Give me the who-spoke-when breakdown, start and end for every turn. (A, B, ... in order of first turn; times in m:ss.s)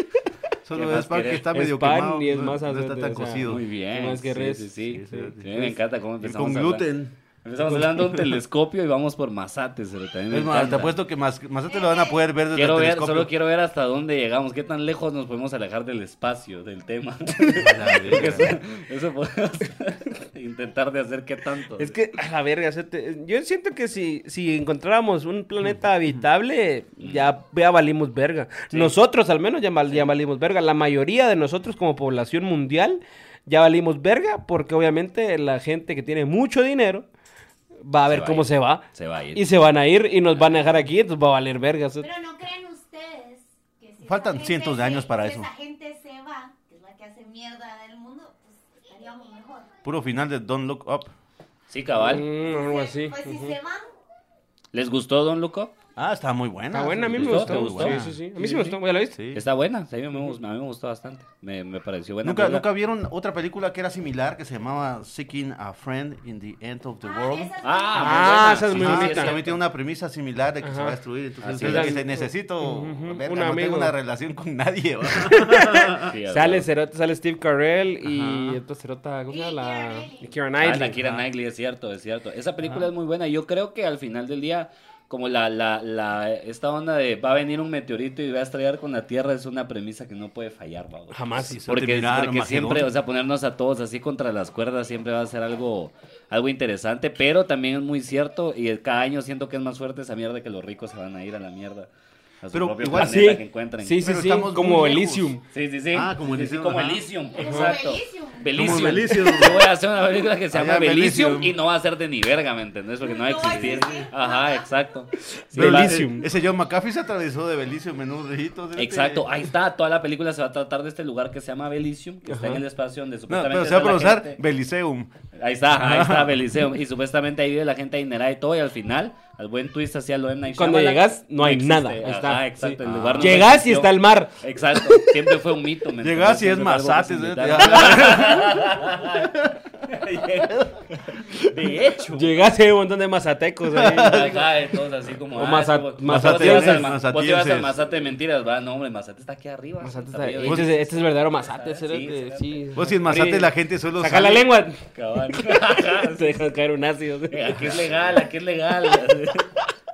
0:00.6-0:03.6 A
0:00.7-0:01.4 B
0:01.5-0:05.4 C
0:03.4-0:06.8 B
0:04.9-0:08.4 A
0:07.4-0:10.9 B
0:10.3-0:13.3 A
0:11.7-0:12.2 D
0:12.5-0:22.0 B
0:17.6-0:18.6 A
0:21.8-0:37.1 C
0:27.0-0:27.3 B
0:37.8-0:38.8 C
0:38.1-0:39.5 B
0:39.4-0:42.1 C
0:42.0-0:49.7 D
0:44.0-0:45.5 A
0:49.8-0:51.1 A
0:51.7-0:52.3 B
0:52.0-0:53.5 C
0:52.4-0:53.9 D
0:54.7-0:55.7 B
0:56.0-0:58.2 A
0:56.7-0:59.2 C
0:57.1-0:58.8 B
0:59.1-0:59.4 A
0:59.3-1:02.7 B
1:02.2-1:07.5 A
1:07.0-1:08.7 D
1:07.6-1:09.6 B
1:08.0-1:09.4 C
1:08.7-1:16.1 A
1:10.6-1:11.0 C
1:11.4-1:12.0 B
1:11.6-1:13.9 C
1:15.1-1:21.0 C
1:16.0-1:16.7 B
1:18.0-1:18.6 A
1:19.3-1:20.3 D
1:20.6-1:41.9 B
1:31.1-1:31.6 C
1:31.4-1:32.9 A
1:42.4-1:44.1 B
1:42.5-1:43.3 A
1:43.0-1:45.4 C
1:44.0-1:45.4 A
1:45.5-1:56.1 B
1:45.9-1:47.0 A
1:47.4-1:49.2 D
1:47.4-1:47.7 C
1:48.5-1:49.7 A
1:49.3-1:49.5 C
1:50.5-1:51.6 A
1:53.0-1:54.7 D
1:53.6-1:53.8 A
1:55.3-1:56.3 C
1:55.5-1:59.3 A
1:58.8-2:04.4 B
2:02.3-2:02.6 C
2:03.3-2:05.1 A
2:05.4-2:19.3 B
2:05.8-2:06.4 A
2:10.6-2:15.2 C
2:12.8-2:13.4 A
2:16.0-2:19.6 A
2:19.9-2:22.4 B
2:22.1-2:24.4 C
2:23.7-2:24.5 A
2:24.0-2:32.7 B
2:25.4-2:26.9 C
2:26.1-2:27.8 A
2:29.8-2:37.8 C
2:30.4-2:30.7 A
2:32.8-2:34.5 A
2:34.9-2:36.4 B
2:37.3-2:39.5 B